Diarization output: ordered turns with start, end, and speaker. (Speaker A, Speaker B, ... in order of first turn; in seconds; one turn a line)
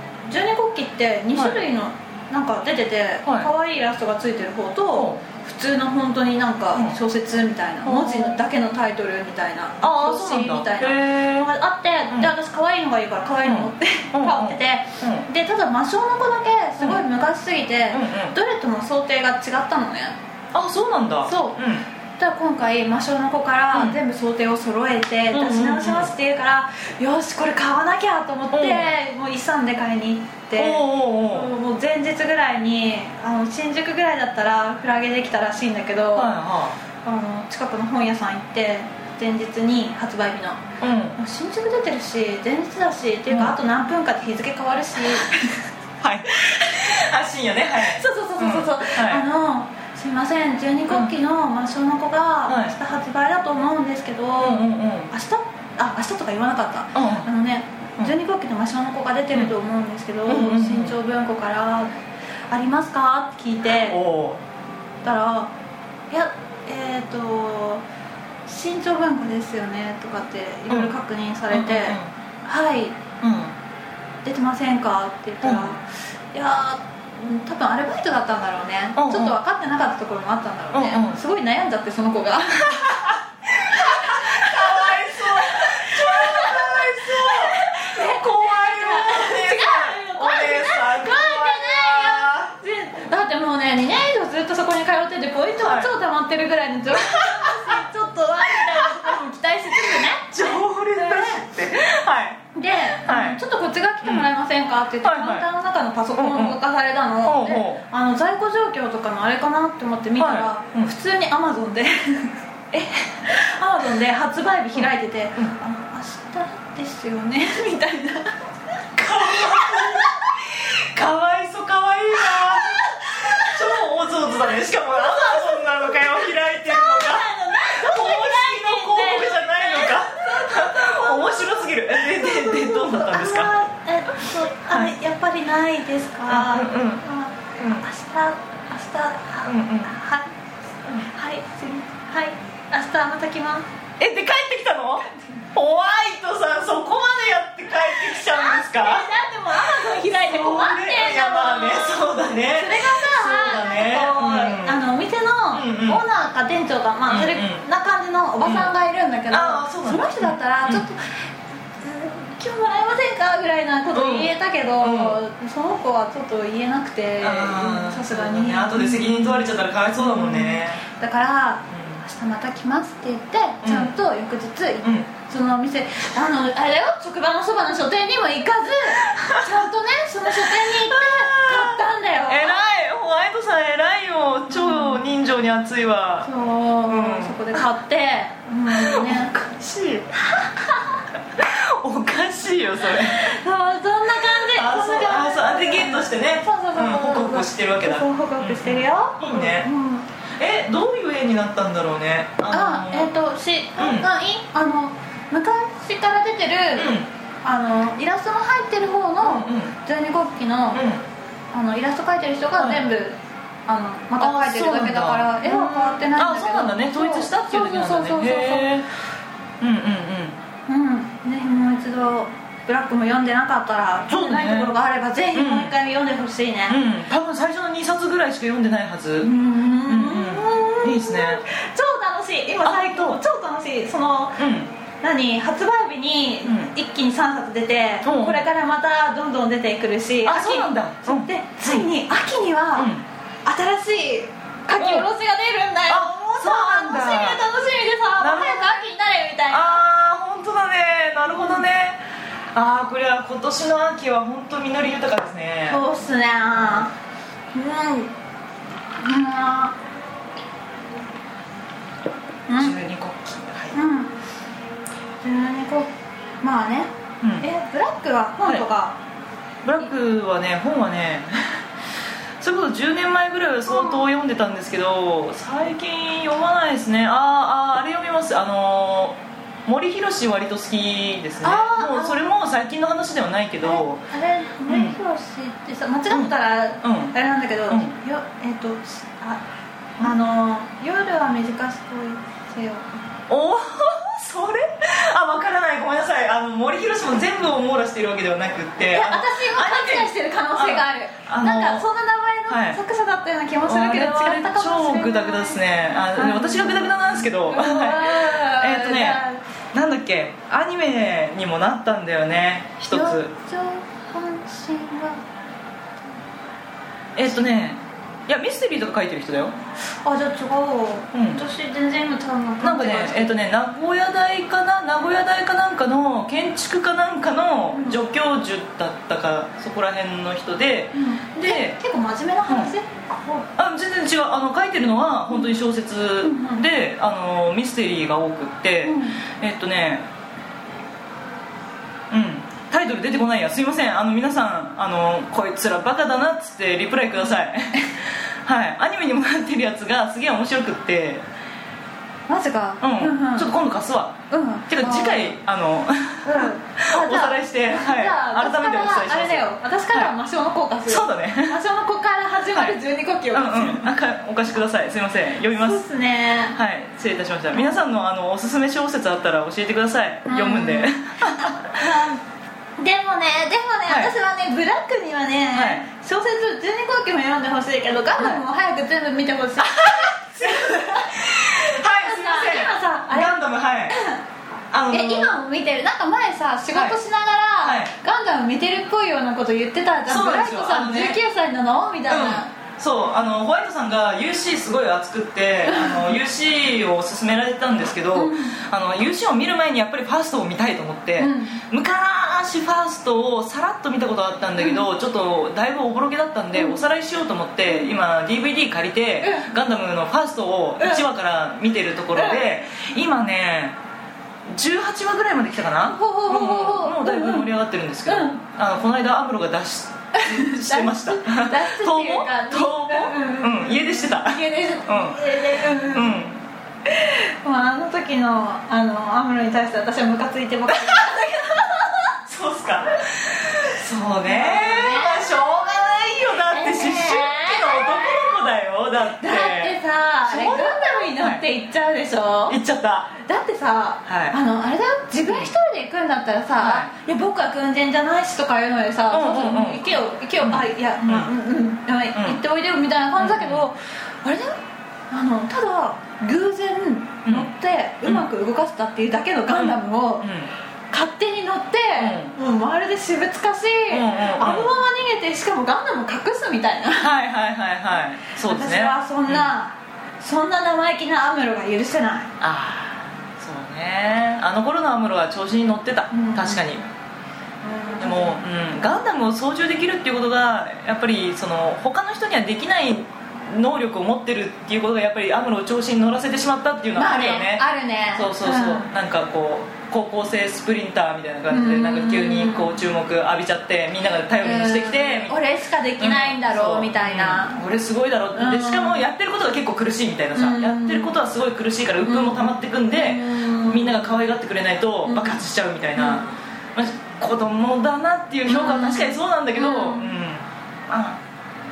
Speaker A: 0.3-20.2
Speaker B: 1.4-1.7
Speaker B: 3.2-3.5
Speaker B: 4.9-5.2
Speaker B: 7.8-8.4
Speaker B: 9.8-11.5
Speaker B: 13.4-15.3
Speaker B: 17.9-18.4
Speaker B: 20.5-21.9
Speaker A: 21.2-21.6
Speaker A: 22.2-36.3
Speaker B: 23.7-24.0
Speaker B: 25.3-26.1
Speaker B: 28.5-28.9
Speaker B: 30.6-31.5
Speaker B: 36.1-36.8
Speaker A: 37.0-40.6
Speaker B: 40.8-41.2
Speaker A: 41.2-45.7
Speaker B: 43.3-43.5
Speaker B: 46.0-49.2
Speaker A: 47.8-61.9
Speaker B: 52.5-52.8
Speaker B: 54.4-55.1
Speaker B: 57.0-57.3
Speaker B: 60.3-61.0
Speaker A: 62.5-64.0
Speaker B: 63.9-64.4
Speaker A: 65.0-65.5
Speaker A: 66.1-67.8
Speaker A: 68.5-73.0
Speaker B: 70.7-71.0
Speaker B: 71.5-72.1
Speaker B: 73.2-73.5
Speaker A: 74.2-101.5
Speaker B: 75.4-75.8
Speaker B: 79.0-79.4
Speaker B: 80.7-81.2
Speaker B: 82.6-92.5
Speaker B: 95.6-95.9
Speaker B: 96.9-97.8
Speaker B: 98.6-99.2
Speaker B: 100.0-103.4
Speaker A: 102.5-112.3
Speaker B: 104.0-104.3
Speaker B: 105.0-105.5
Speaker B: 106.2-106.6
Speaker B: 107.2-107.8
Speaker B: 110.2-110.9
Speaker B: 112.7-113.2
Speaker A: 113.2-118.4
Speaker B: 119.0-133.6
Speaker A: 119.2-120.2
Speaker A: 122.3-123.8
Speaker A: 124.9-140.3
Speaker B: 134.2-134.9
Speaker B: 136.3-137.0
Speaker B: 137.6-137.9
Speaker B: 139.4-139.9
Speaker A: 140.9-143.7
Speaker B: 144.0-154.8
Speaker A: 148.0-161.2
Speaker B: 155.5-156.0
Speaker B: 157.1-157.7
Speaker B: 158.4-158.7
Speaker B: 159.3-160.8
Speaker A: 161.8-169.4
Speaker B: 163.9-165.2
Speaker B: 167.2-170.8
Speaker A: 170.0-182.6
Speaker B: 171.8-172.0
Speaker B: 173.6-173.9
Speaker B: 179.1-179.4
Speaker B: 180.3-186.3
Speaker A: 184.5-185.0
Speaker A: 186.2-189.3
Speaker B: 186.9-187.6
Speaker B: 188.7-190.1
Speaker A: 190.2-191.0
Speaker B: 191.3-193.3
Speaker A: 193.0-200.1
Speaker B: 194.5-199.7
Speaker B: 200.4-203.1
Speaker A: 202.5-210.8
Speaker B: 203.8-204.1
Speaker B: 206.8-207.1
Speaker B: 209.2-209.7
Speaker B: 210.7-211.0
Speaker A: 211.5-218.7
Speaker B: 212.6-212.8
Speaker B: 214.2-218.9
Speaker B: 219.6-220.4
Speaker A: 220.7-226.8
Speaker B: 224.1-224.8
Speaker B: 225.3-225.7
Speaker B: 226.7-229.3
Speaker A: 229.2-234.4
Speaker B: 229.9-231.4
Speaker B: 232.6-233.2
Speaker B: 234.4-234.7
Speaker A: 235.0-242.9
Speaker B: 236.4-236.7
Speaker B: 238.1-238.5
Speaker B: 240.2-241.9
Speaker B: 242.8-243.1
Speaker A: 243.5-249.8
Speaker B: 244.8-245.1
Speaker B: 245.9-247.4
Speaker B: 248.2-248.9
Speaker B: 249.5-252.0
Speaker A: 251.3-251.6
Speaker B: 252.6-255.8
Speaker A: 255.7-256.9
Speaker A: 257.5-258.1
Speaker A: 259.0-259.8
Speaker A: 262.5-262.8
Speaker B: 262.6-263.8
Speaker A: 263.7-264.1
Speaker A: 265.2-269.0
Speaker B: 267.2-267.5
Speaker B: 269.6-271.6
Speaker B: 272.4-284.1
Speaker A: 273.7-274.0
Speaker A: 281.4-282.2
Speaker A: 283.6-289.4
Speaker B: 284.7-285.0
Speaker B: 286.1-287.1
Speaker A: 290.0-293.0
Speaker B: 293.3-301.9
Speaker A: 298.9-305.6
Speaker B: 302.5-302.8
Speaker B: 303.7-309.2
Speaker A: 306.2-309.4
Speaker B: 309.7-313.3
Speaker A: 312.9-315.2
Speaker B: 317.1-319.6
Speaker A: 320.0-323.4
Speaker B: 321.1-321.4
Speaker B: 322.6-331.8
Speaker A: 327.7-328.0
Speaker A: 330.9-333.5
Speaker B: 332.5-332.7
Speaker B: 333.6-340.1
Speaker A: 336.2-336.6
Speaker A: 338.8-339.2
Speaker B: 342.1-351.2
Speaker A: 352.3-353.5
Speaker B: 352.8-354.2
Speaker A: 354.3-355.3
Speaker B: 354.7-360.1
Speaker A: 356.2-363.9
Speaker B: 360.9-361.6
Speaker B: 363.3-365.8
Speaker A: 365.5-366.6
Speaker B: 366.6-372.0
Speaker A: 370.3-372.2
Speaker A: 372.8-384.2
Speaker B: 373.9-374.1
Speaker B: 375.5-375.9
Speaker B: 379.6-384.0
Speaker B: 384.7-385.4
Speaker A: 384.9-392.5
Speaker B: 386.7-387.0
Speaker B: 387.6-387.9
Speaker B: 390.1-391.2
Speaker B: 392.1-413.8
Speaker A: 395.7-396.0
Speaker A: 398.1-398.6
Speaker A: 401.2-401.6
Speaker A: 406.6-406.8
Speaker A: 409.2-409.5
Speaker A: 410.8-411.0
Speaker A: 412.1-412.4
Speaker B: 414.5-426.4
Speaker A: 415.9-417.5
Speaker A: 418.1-418.4
Speaker A: 420.1-426.2
Speaker A: 426.9-432.1
Speaker B: 430.7-431.0
Speaker B: 432.3-441.4
Speaker A: 434.2-438.4
Speaker A: 439.0-442.6
Speaker B: 442.5-443.1
Speaker A: 443.2-454.6
Speaker B: 444.1-444.4
Speaker B: 446.6-446.9
Speaker B: 449.1-449.9
Speaker B: 450.4-451.3
Speaker B: 452.1-452.4
Speaker B: 453.2-453.6
Speaker A: 455.1-460.3
Speaker B: 459.5-460.5
Speaker A: 460.9-467.1
Speaker B: 462.0-462.3
Speaker B: 463.9-464.7
Speaker B: 467.0-469.5
Speaker A: 468.4-472.3
Speaker B: 472.4-476.8
Speaker A: 476.1-476.6
Speaker A: 477.6-478.4
Speaker B: 478.0-495.4
Speaker A: 487.0-488.9
Speaker A: 491.5-492.8
Speaker A: 494.4-497.6
Speaker B: 496.0-511.2
Speaker A: 498.4-499.0
Speaker A: 500.4-501.2
Speaker A: 502.1-504.1
Speaker A: 505.1-505.4
Speaker A: 506.0-506.3
Speaker A: 508.5-510.1